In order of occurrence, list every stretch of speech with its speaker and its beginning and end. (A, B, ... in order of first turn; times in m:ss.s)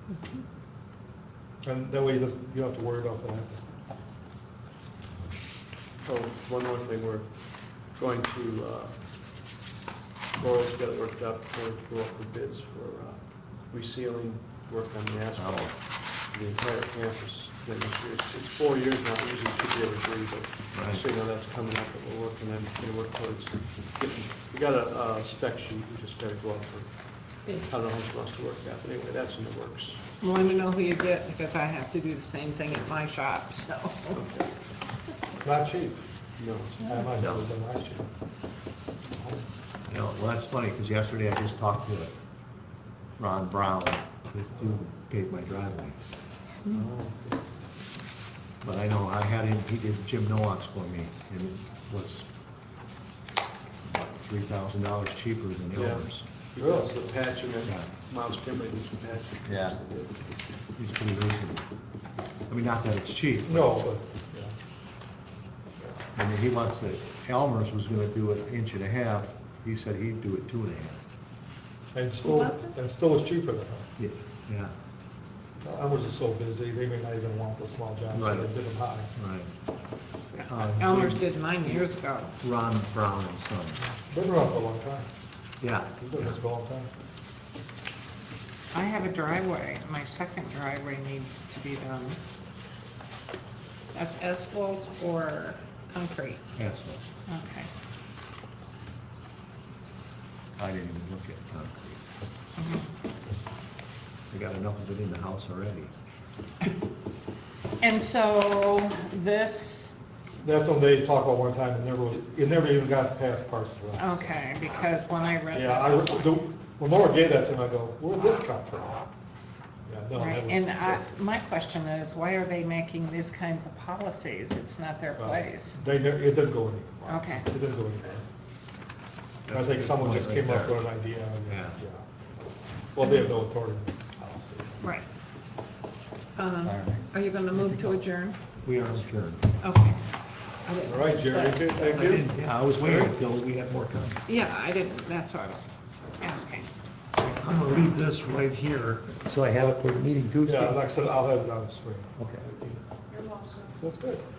0:01.6-0:03.6 A
0:06.0-0:09.6 B
0:10.3-0:30.0 B
0:15.4-0:15.8 C
0:20.7-0:21.0 C
0:30.2-0:34.3 D
0:35.4-0:36.0 A
0:36.4-0:37.2 B
0:36.8-0:38.1 A
0:39.1-0:39.4 A
0:39.9-0:42.1 C
0:43.2-0:46.0 C
0:46.7-0:47.4 B
0:48.6-0:52.3 C
0:53.8-0:56.2 C
0:55.7-1:00.2 B
0:56.6-0:56.9 A
0:57.6-0:57.9 C
0:59.4-0:59.8 C
1:00.7-1:01.6 C
1:02.5-1:03.8 C
1:03.4-1:04.5 A
1:06.1-1:11.0 C
1:11.9-1:13.9 A
1:12.2-1:12.8 D
1:14.0-1:14.7 C
1:15.6-1:19.1 A
1:18.1-1:18.6 C
1:19.1-1:19.5 C
1:20.3-1:22.3 D
1:20.4-1:21.8 C
1:22.4-1:23.8 C
1:23.8-1:25.1 A
1:25.6-1:26.4 C
1:26.0-1:26.9 A
1:28.7-1:32.2 D
1:33.9-1:36.4 D
1:36.6-1:37.0 C
1:37.3-1:37.7 D
1:40.6-1:42.0 C
1:42.6-1:42.9 D
1:44.3-1:45.9 C
1:47.8-1:49.9 D
1:50.4-1:54.4 A
1:54.0-1:56.4 D
1:55.5-1:59.1 A
1:59.8-2:01.1 A
2:00.2-2:05.8 D
2:05.2-2:08.2 A
2:07.1-2:07.5 D
2:09.4-2:10.9 C
2:09.5-2:12.0 A
2:11.5-2:11.8 C
2:12.9-2:14.8 A
2:13.0-2:13.3 D
2:14.8-2:15.0 D
2:16.4-2:18.4 D
2:16.6-2:18.0 C
2:18.6-2:19.5 C
2:19.6-2:20.0 D
2:20.6-2:22.2 D
2:20.8-2:23.1 A
2:21.9-2:24.2 C
2:24.3-2:25.6 D
2:26.2-2:26.7 D
2:27.2-2:30.8 C
2:30.4-2:32.8 A
2:32.2-2:32.4 C
2:33.1-2:33.7 D
2:33.8-2:34.2 A